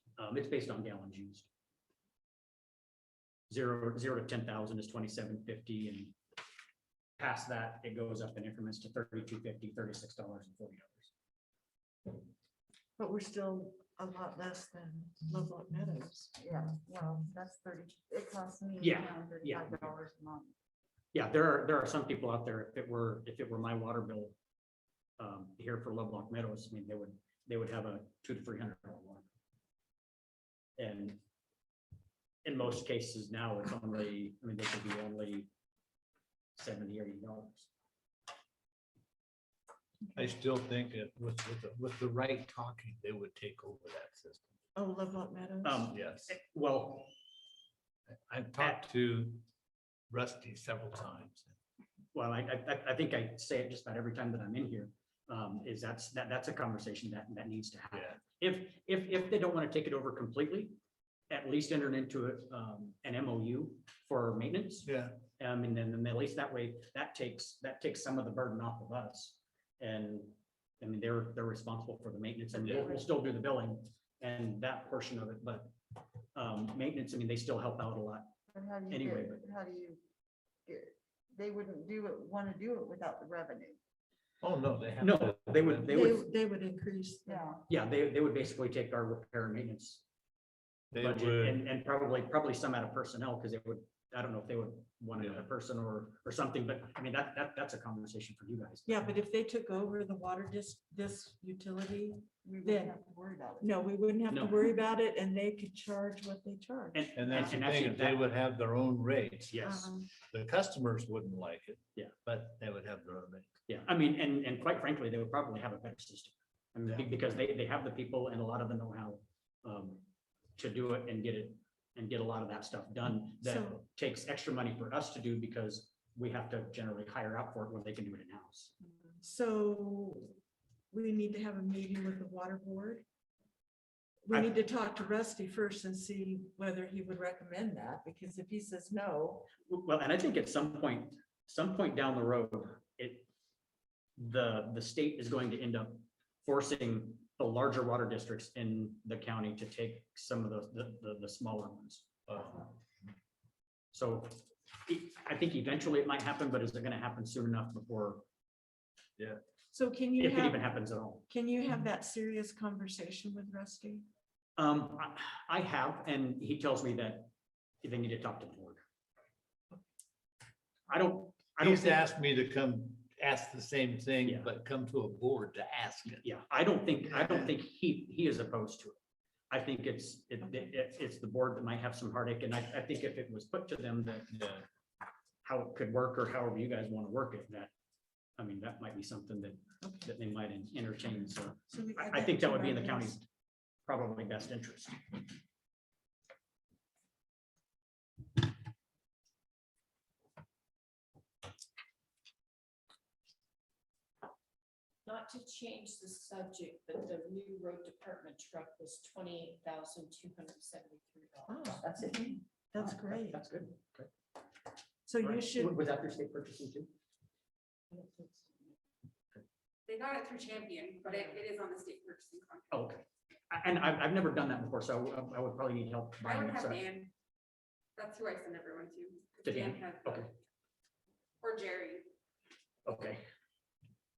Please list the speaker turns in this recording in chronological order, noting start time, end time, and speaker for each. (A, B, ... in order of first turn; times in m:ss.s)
0:00.2-0:01.5 A
0:03.5-0:06.2 A
0:07.2-0:11.1 A
0:13.0-0:16.4 B
0:16.4-0:20.5 C
0:18.8-0:20.0 A
0:21.1-0:24.4 A
0:25.2-0:29.3 A
0:30.8-0:31.2 A
0:32.4-0:35.5 A
0:36.6-0:37.7 A
0:40.2-0:44.4 D
0:44.8-0:45.9 B
0:45.6-0:47.1 A
0:45.9-0:46.3 D
0:48.1-0:49.4 D
0:50.1-0:51.5 D
0:52.1-1:00.8 A
1:01.3-1:15.8 A
1:04.8-1:05.2 D
1:16.3-1:18.3 A
1:18.5-1:20.0 C
1:18.9-1:19.4 A
1:20.6-1:23.8 C
1:24.4-1:26.1 D
1:25.0-1:26.2 A
1:25.9-1:27.5 B
1:27.2-1:27.6 C
1:27.7-1:30.0 A
1:30.9-1:31.6 D
1:31.0-1:39.0 A
1:38.8-1:42.9 B
1:42.4-1:43.8 C
1:43.6-1:47.1 B
1:44.3-1:44.6 A
1:46.9-1:48.2 A
1:47.2-1:53.5 D
1:49.5-1:49.9 A
1:49.6-1:50.1 B
1:53.7-2:00.0 A
2:00.6-2:08.7 A
2:03.4-2:03.8 B
2:09.2-2:10.4 B
2:10.9-2:13.0 B
2:14.2-2:19.5 B
2:19.7-2:23.3 A
2:24.2-2:32.1 A
2:32.3-2:32.6 D
2:33.9-2:38.2 A
2:39.7-2:40.7 B
2:40.2-2:41.2 A
2:41.3-2:44.0 B
2:44.6-2:47.3 A
2:47.8-2:48.8 A
2:50.9-2:52.0 A
2:51.6-2:56.2 D
2:54.2-2:54.5 A
2:56.2-2:59.0 A
2:57.1-2:57.5 D
2:59.5-3:04.3 A
3:04.3-3:04.6 D
3:05.4-3:07.7 A
3:08.4-3:13.2 A
3:09.8-3:10.1 B
3:11.7-3:13.2 B
3:13.8-3:15.1 A
3:25.0-3:32.0 E
3:31.5-3:33.4 B
3:32.8-3:34.1 A
3:35.1-3:35.7 B
3:35.2-3:36.9 A
3:38.0-3:38.2 B
3:39.9-3:42.8 F
3:42.7-3:46.8 A
3:46.2-3:47.1 F
3:48.0-3:50.3 F
3:49.4-3:50.3 A
3:51.4-3:52.1 F
3:52.8-3:53.2 A